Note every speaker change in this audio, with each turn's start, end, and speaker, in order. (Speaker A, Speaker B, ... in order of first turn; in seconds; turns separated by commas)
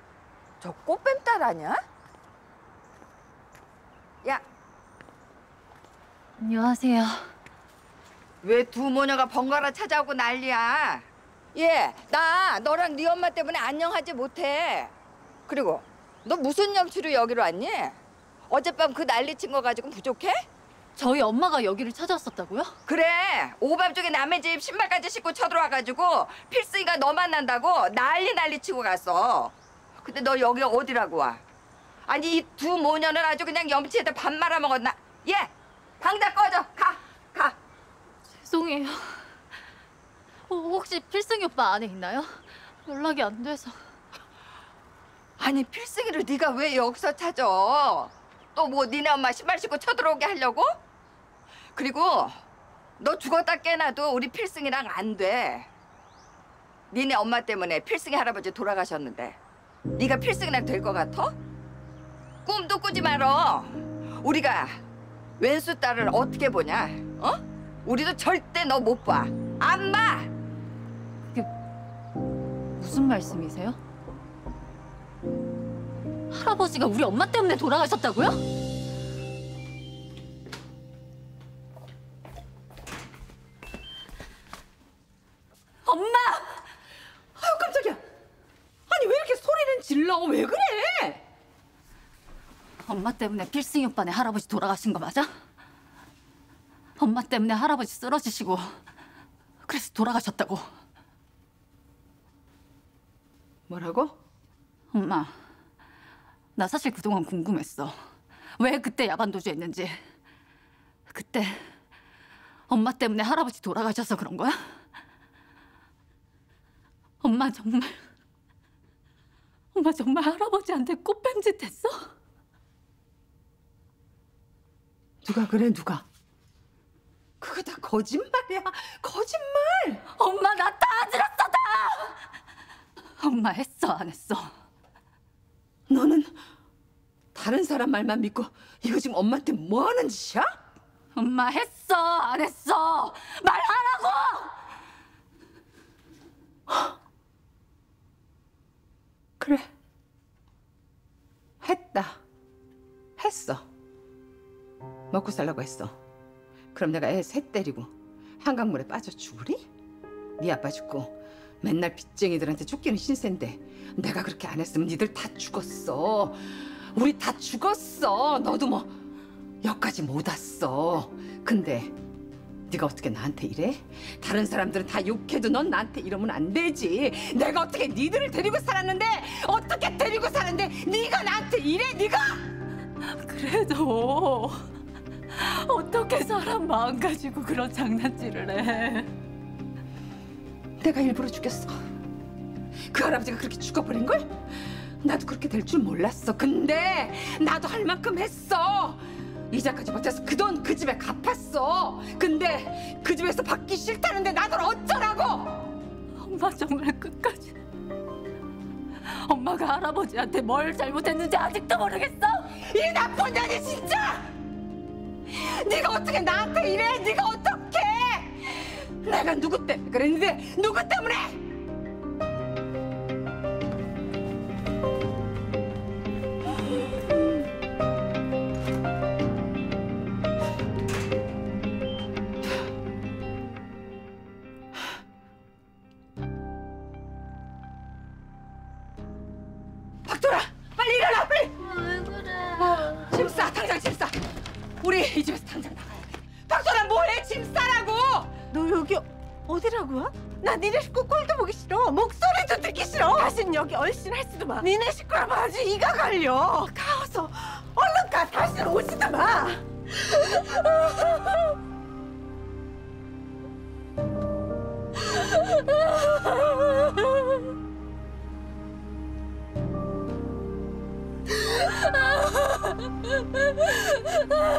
Speaker A: 0.6-1.8, Speaker B: 6.4-7.3, Speaker A: 8.4-14.9, Speaker A: 15.5-20.5, Speaker B: 20.9-22.7, Speaker A: 22.9-31.4, Speaker A: 32.1-37.6, Speaker B: 38.4-39.3, Speaker B: 40.5-43.8, Speaker A: 45.4-50.7, Speaker A: 51.8-52.4, Speaker A: 53.0-55.7, Speaker A: 56.9-59.4, Speaker A: 60.0-61.3, Speaker A: 62.5-64.8, Speaker A: 65.4-70.3, Speaker B: 72.8-73.8, Speaker B: 76.3-78.4, Speaker B: 85.8-86.6, Speaker C: 87.4-88.0, Speaker C: 88.9-91.2, Speaker B: 92.8-95.3, Speaker B: 97.0-98.7, Speaker B: 99.6-100.6, Speaker C: 103.7-104.2, Speaker B: 104.9-105.3, Speaker B: 106.6-107.9, Speaker B: 108.6-110.0, Speaker B: 111.1-111.6, Speaker B: 112.7-114.6, Speaker B: 117.2-118.0, Speaker B: 119.7-122.1, Speaker C: 125.2-126.1, Speaker C: 127.4-130.0, Speaker B: 130.1-132.2, Speaker B: 133.2-134.5, Speaker C: 135.9-136.4, Speaker C: 137.3-140.5, Speaker B: 141.2-144.6, Speaker C: 149.4-149.7, Speaker C: 151.6-152.2, Speaker C: 153.2-153.7, Speaker C: 155.1-156.0, Speaker C: 156.7-159.6, Speaker C: 160.4-168.9, Speaker C: 169.6-171.9, Speaker C: 172.7-182.4, Speaker B: 183.1-184.6, Speaker B: 185.3-189.1, Speaker C: 190.8-191.8, Speaker C: 192.9-194.3, Speaker C: 195.0-205.7, Speaker B: 206.2-207.6, Speaker B: 209.0-212.6, Speaker C: 212.6-214.3, Speaker C: 215.3-221.4, Speaker C: 240.1-241.6, Speaker B: 241.6-243.2, Speaker C: 242.7-244.2, Speaker C: 244.8-248.3, Speaker D: 248.5-260.7, Speaker B: 273.7-274.2